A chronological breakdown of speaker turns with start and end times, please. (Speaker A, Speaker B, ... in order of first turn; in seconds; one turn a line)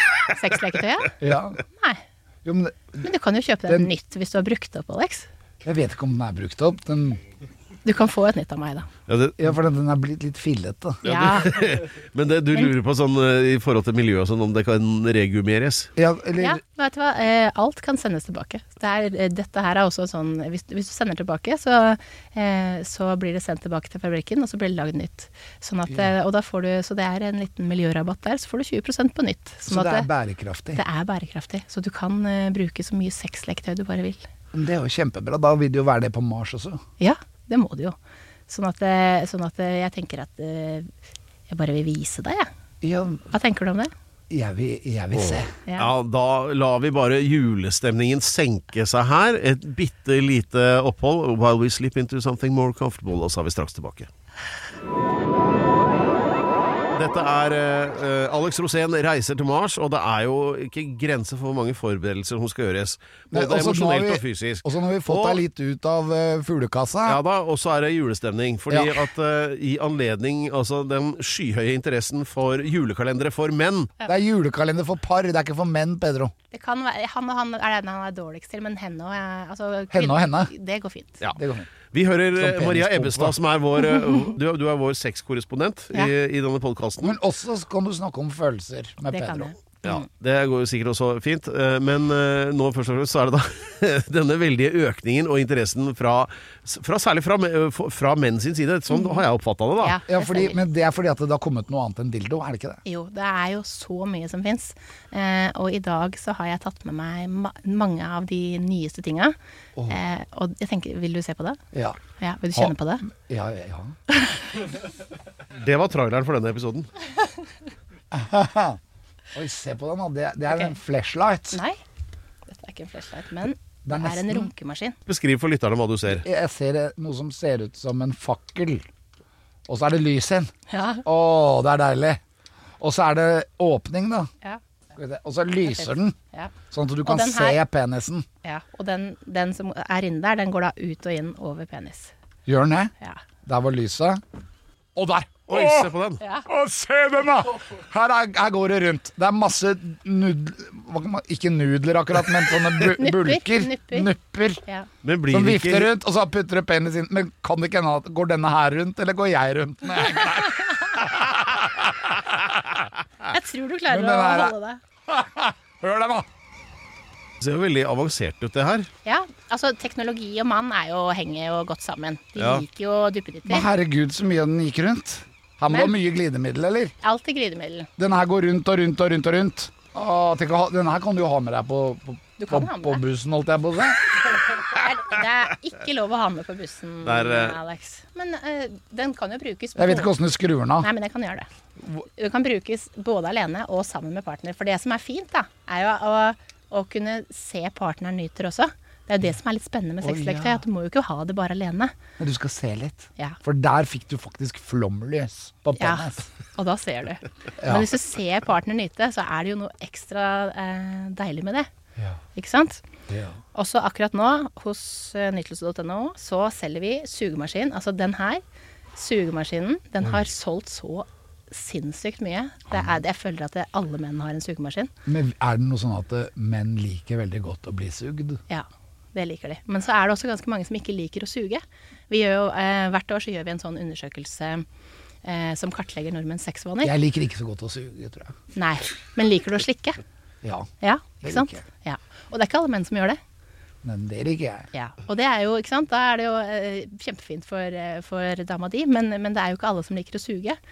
Speaker A: 0.3-1.2
Speaker B: 1.2-1.6
Speaker A: 1.7-2.0
Speaker B: 2.4-3.0
Speaker A: 3.0-5.3
Speaker B: 5.6-7.2
Speaker A: 7.8-8.9
Speaker C: 9.1-9.5
Speaker B: 9.4-11.0
Speaker C: 11.0-15.9
Speaker A: 11.0-11.7
Speaker B: 16.0-16.6
Speaker A: 16.4-30.1
Speaker B: 29.6-30.8
Speaker A: 30.7-34.3
Speaker B: 34.5-36.8
Speaker A: 37.0-38.0
Speaker A: 38.5-40.9
Speaker A: 41.5-42.5
Speaker B: 42.8-43.2
Speaker A: 43.3-43.9
Speaker B: 44.3-45.5
Speaker C: 45.1-54.1
Speaker C: 56.9-65.4
Speaker B: 63.3-67.2
Speaker C: 67.0-73.9
Speaker B: 68.7-69.1
Speaker B: 74.0-76.3
Speaker A: 76.5-81.2
Speaker B: 79.9-80.5
Speaker B: 81.3-81.7
Speaker C: 81.9-87.2
Speaker B: 82.4-83.4
Speaker B: 87.0-89.5
Speaker A: 89.1-90.0
Speaker C: 89.8-100.0
Speaker A: 98.9-99.2
Speaker A: 99.8-100.6
Speaker B: 100.1-102.8
Speaker A: 102.8-109.3
Speaker A: 109.9-111.6
Speaker B: 111.7-112.0
Speaker A: 112.2-113.1
Speaker B: 112.5-114.0
Speaker A: 114.1-114.4
Speaker C: 115.6-116.9
Speaker B: 118.1-118.8
Speaker B: 119.3-121.6
Speaker A: 121.5-121.8
Speaker A: 122.5-125.0
Speaker B: 123.8-124.5
Speaker C: 125.1-126.2
Speaker B: 126.1-128.8
Speaker B: 129.7-130.5
Speaker A: 130.7-131.0
Speaker B: 131.0-132.2
Speaker B: 132.8-134.3
Speaker B: 135.0-136.2
Speaker A: 135.6-136.5
Speaker B: 136.7-138.2
Speaker A: 137.0-137.6
Speaker A: 138.4-142.1
Speaker B: 142.5-142.9
Speaker B: 143.4-144.2
Speaker B: 144.9-145.9
Speaker C: 145.5-146.2
Speaker A: 146.2-146.5
Speaker B: 146.5-154.6
Speaker A: 152.9-154.1
Speaker C: 155.0-155.9
Speaker B: 155.3-162.6
Speaker A: 163.3-164.8
Speaker B: 163.9-164.5
Speaker B: 165.1-166.3
Speaker C: 167.4-168.9
Speaker A: 169.0-173.7
Speaker C: 172.4-172.6
Speaker B: 173.5-176.9
Speaker A: 175.7-175.9
Speaker A: 177.0-177.9
Speaker B: 178.0-184.1
Speaker A: 182.4-183.0
Speaker A: 184.6-190.1
Speaker C: 187.0-187.6
Speaker B: 189.8-190.9
Speaker A: 190.8-191.5
Speaker A: 192.2-201.9
Speaker B: 200.0-200.6
Speaker B: 202.2-206.2
Speaker A: 205.8-211.7
Speaker B: 207.6-207.9
Speaker A: 212.4-212.8
Speaker B: 213.1-213.4
Speaker A: 213.5-218.4
Speaker A: 218.9-224.9
Speaker B: 225.1-228.4
Speaker A: 228.5-234.6
Speaker A: 235.2-236.9
Speaker B: 236.8-238.3
Speaker A: 238.5-240.0
Speaker B: 240.4-240.7
Speaker A: 240.8-243.2
Speaker B: 241.2-241.6
Speaker B: 243.8-244.7
Speaker A: 244.7-250.6